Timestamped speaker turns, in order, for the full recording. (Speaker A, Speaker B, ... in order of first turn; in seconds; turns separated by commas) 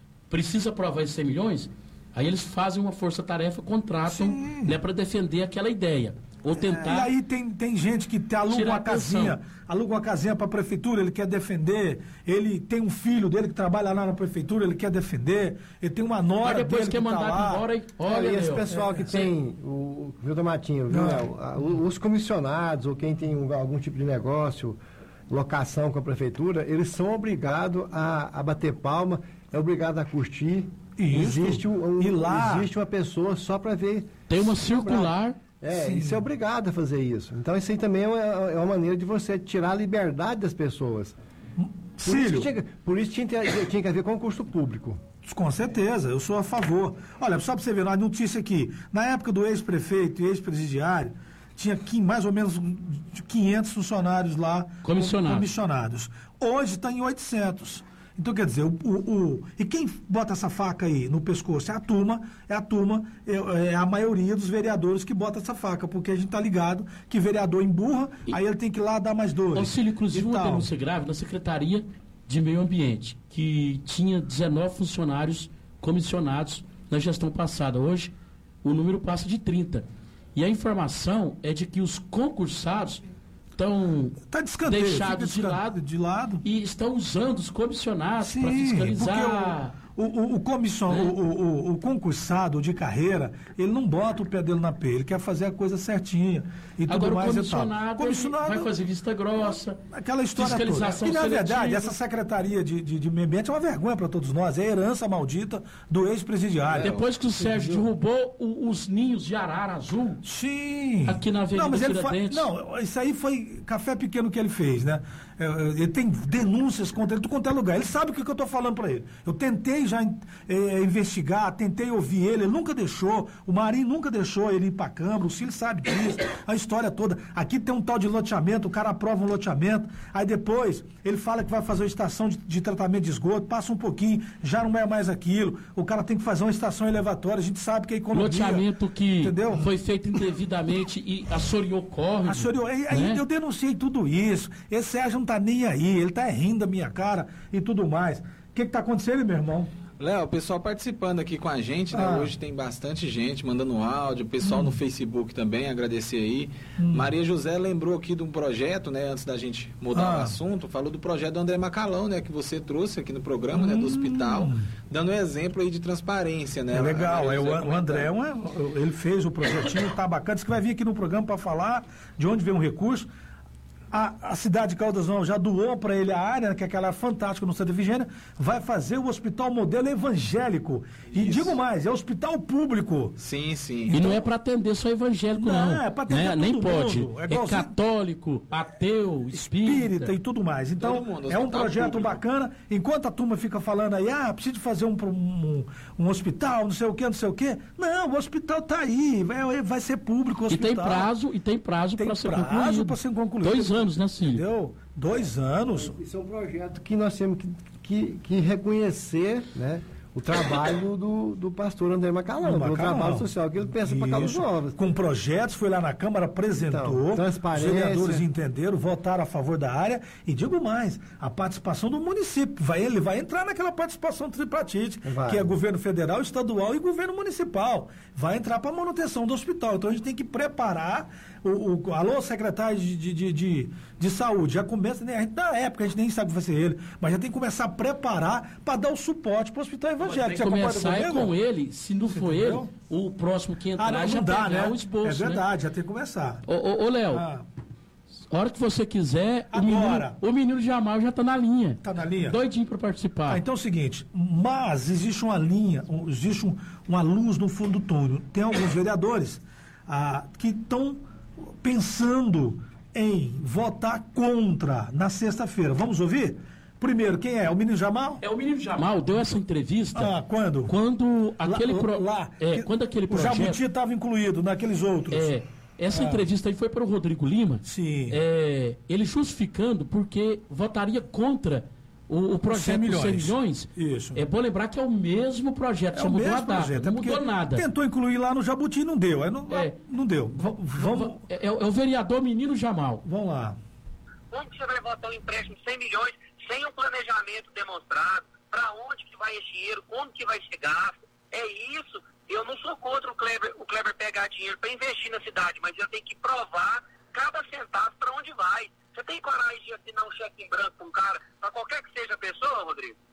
Speaker A: 0.3-7.1, Speaker B: 4.1-4.8, Speaker B: 6.6-17.6, Speaker A: 8.5-9.4, Speaker A: 16.4-19.3, Speaker C: 18.0-41.2, Speaker B: 20.9-21.2, Speaker B: 31.0-32.7, Speaker A: 34.3-35.4, Speaker B: 35.7-36.2, Speaker B: 41.6-42.5, Speaker C: 42.0-45.0, Speaker B: 45.2-70.7, Speaker A: 54.8-55.5, Speaker A: 69.5-78.1, Speaker A: 78.6-83.0, Speaker A: 83.6-85.8, Speaker B: 84.3-86.4, Speaker A: 86.4-89.8, Speaker B: 88.2-98.7, Speaker A: 90.9-91.1, Speaker A: 96.9-99.8, Speaker B: 99.9-107.8, Speaker A: 100.4-101.9, Speaker A: 106.8-110.2, Speaker B: 110.2-138.7, Speaker A: 111.0-112.5, Speaker A: 138.1-143.2, Speaker B: 139.2-139.7, Speaker B: 142.2-149.7, Speaker D: 150.0-168.1, Speaker B: 151.9-152.3, Speaker B: 154.4-154.8, Speaker B: 156.8-157.1, Speaker B: 159.9-160.3, Speaker B: 163.5-164.7, Speaker B: 166.7-173.1, Speaker B: 173.9-183.2, Speaker D: 181.2-181.6, Speaker D: 183.2-184.2, Speaker B: 183.9-184.2, Speaker A: 183.9-190.1, Speaker B: 185.3-187.7, Speaker B: 189.4-201.1, Speaker D: 190.8-192.2, Speaker A: 200.5-204.4, Speaker B: 202.0-205.9, Speaker C: 205.8-214.9, Speaker B: 212.4-241.3, Speaker C: 216.7-218.2, Speaker C: 225.0-225.6, Speaker A: 240.0-245.4, Speaker B: 242.1-242.7, Speaker B: 243.8-246.4, Speaker A: 246.5-247.2, Speaker B: 247.1-247.4, Speaker A: 248.3-253.4, Speaker B: 249.5-250.2, Speaker B: 251.8-252.4, Speaker B: 253.3-268.2, Speaker A: 268.2-270.1, Speaker B: 269.9-270.7, Speaker A: 270.6-273.6, Speaker B: 271.4-275.3, Speaker A: 275.1-287.7, Speaker B: 275.9-276.3, Speaker B: 277.6-278.2, Speaker B: 282.4-284.2, Speaker B: 285.9-291.2, Speaker A: 289.5-289.8, Speaker A: 290.4-293.0, Speaker B: 293.1-293.6, Speaker E: 294.3-312.9